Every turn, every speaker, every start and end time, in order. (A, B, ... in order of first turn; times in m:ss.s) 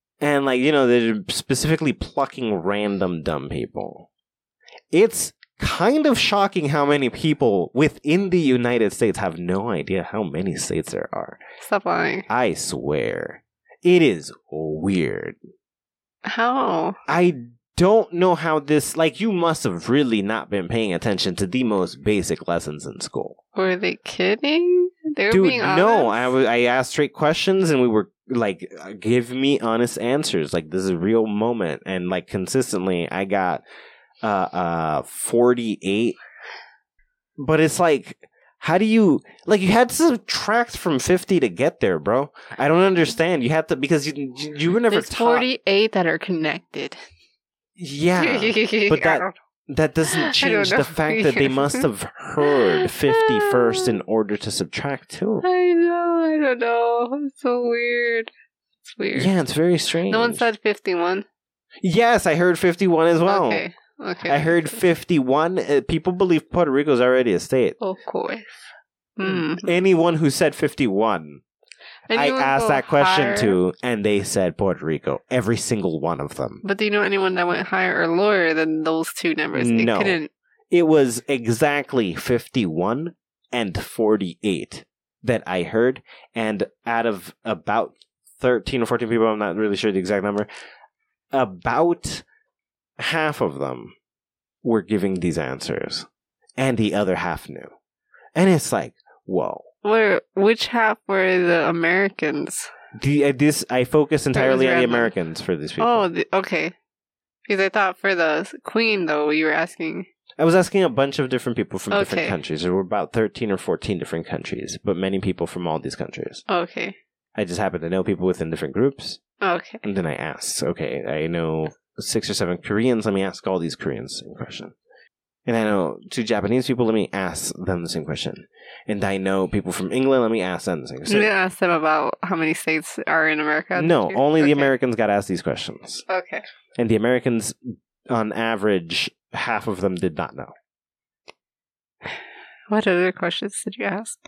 0:00.2-0:04.1 A
0:04.9-0:11.4 A
0:11.6-0:12.3 B
0:12.3-0:15.4 A
0:16.2-0:17.0 B
0:17.1-0:23.4 A
0:23.6-0:26.3 B
0:25.3-0:33.6 A
0:34.2-0:36.2 A
0:37.4-0:45.5 A
0:44.9-0:47.0 B
0:47.8-0:55.4 A
0:48.2-0:49.3 B
0:50.1-0:51.9 B
0:52.4-0:53.9 B
0:55.4-0:58.3 B
0:58.9-0:59.3 B
0:59.2-1:00.5 A
1:00.1-1:01.2 B
1:01.8-1:03.6 A
1:03.3-1:04.8 B
1:04.3-1:07.8 A
1:07.8-1:09.7 B
1:09.2-1:11.4 A
1:12.1-1:13.6 B
1:12.1-1:16.6 A
1:16.6-1:20.3 B
1:19.5-1:20.2 A
1:20.7-1:30.5 A
1:31.3-1:32.2 A
1:33.0-1:33.9 A
1:34.6-1:37.7 A
1:38.4-1:39.7 A
1:39.8-1:42.7 B
1:43.0-1:46.1 A
1:44.3-1:45.1 B
1:45.8-1:46.7 B
1:47.5-1:50.1 B
1:50.4-1:56.4 A
1:51.9-1:52.4 B
1:56.5-1:57.0 B
1:57.4-1:59.2 A
1:59.4-1:59.8 B
1:59.8-2:04.7 A
2:05.5-2:11.3 A
2:11.1-2:14.7 B
2:13.8-2:16.0 A
2:16.1-2:16.4 B
2:16.8-2:20.5 A
2:22.7-2:24.2 B